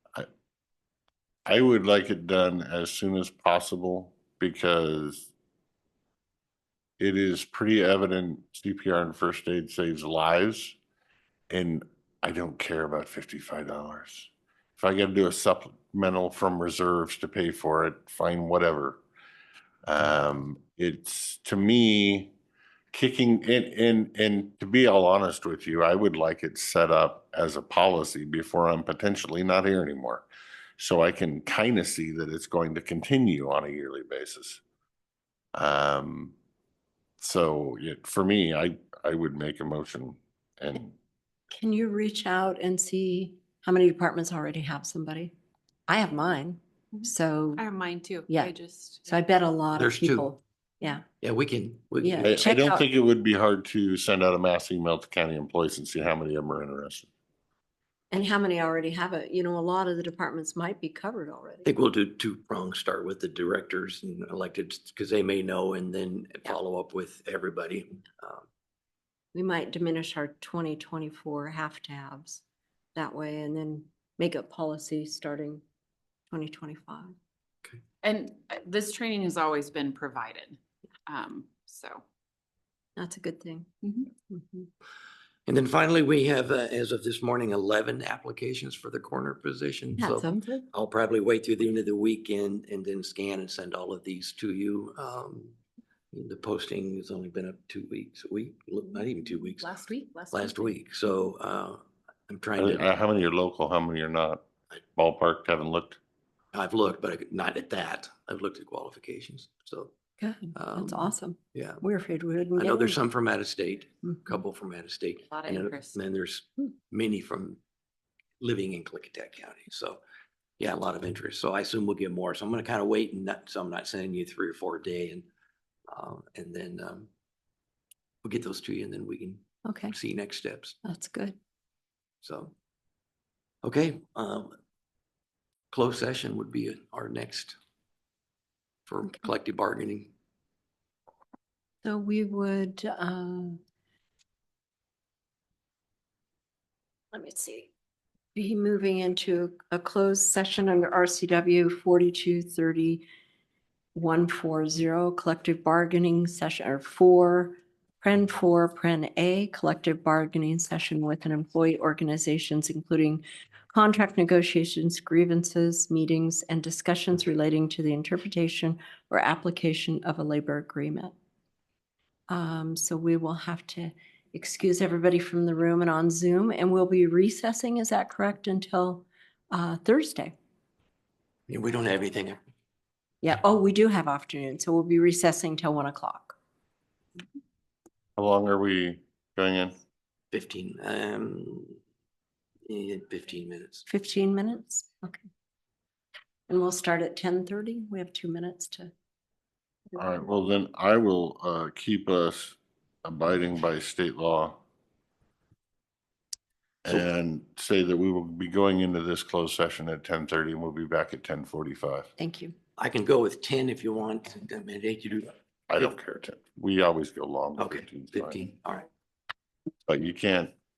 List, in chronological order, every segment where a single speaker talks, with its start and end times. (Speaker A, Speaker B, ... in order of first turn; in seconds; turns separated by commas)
Speaker A: 1.5-5.3, Speaker A: 7.0-10.8, Speaker A: 11.5-19.0, Speaker A: 19.8-22.3, Speaker A: 22.9-30.3, Speaker A: 30.8-34.6, Speaker A: 35.5-36.4, Speaker A: 37.2-41.0, Speaker B: 41.5-45.3, Speaker B: 45.9-47.6, Speaker C: 47.0-49.2, Speaker B: 49.1-51.0, Speaker D: 49.8-50.3, Speaker D: 51.2-52.5, Speaker B: 52.0-52.8, Speaker A: 52.2-57.1, Speaker B: 58.1-61.7, Speaker D: 61.6-68.5, Speaker B: 69.3-72.4, Speaker B: 73.0-75.6, Speaker B: 76.3-77.1, Speaker C: 78.0-82.0, Speaker B: 83.0-84.7, Speaker D: 85.5-95.6, Speaker B: 90.0-90.6, Speaker D: 96.1-99.7, Speaker C: 99.6-100.7, Speaker D: 100.3-102.9, Speaker A: 102.6-106.0, Speaker D: 106.5-109.9, Speaker B: 110.2-113.0, Speaker D: 110.5-111.8, Speaker D: 112.6-117.6, Speaker C: 115.3-116.0, Speaker D: 118.4-120.0, Speaker D: 120.6-125.3, Speaker D: 125.9-127.1, Speaker D: 128.2-130.8, Speaker B: 129.7-130.0, Speaker B: 130.8-131.4, Speaker D: 132.2-132.5, Speaker D: 133.6-134.5, Speaker D: 135.7-137.6, Speaker D: 138.9-140.1, Speaker B: 141.8-143.6, Speaker B: 147.1-147.7, Speaker B: 148.3-153.1, Speaker B: 153.9-171.1, Speaker B: 172.3-180.3, Speaker D: 181.5-182.4, Speaker B: 183.2-186.4, Speaker A: 188.2-189.8, Speaker D: 190.3-191.8, Speaker D: 192.7-193.9, Speaker B: 193.9-195.3, Speaker B: 196.5-198.9, Speaker A: 200.0-204.6, Speaker A: 206.8-212.1, Speaker B: 212.2-212.6, Speaker D: 212.8-215.3, Speaker A: 215.7-218.4, Speaker D: 217.6-218.9, Speaker A: 219.9-220.5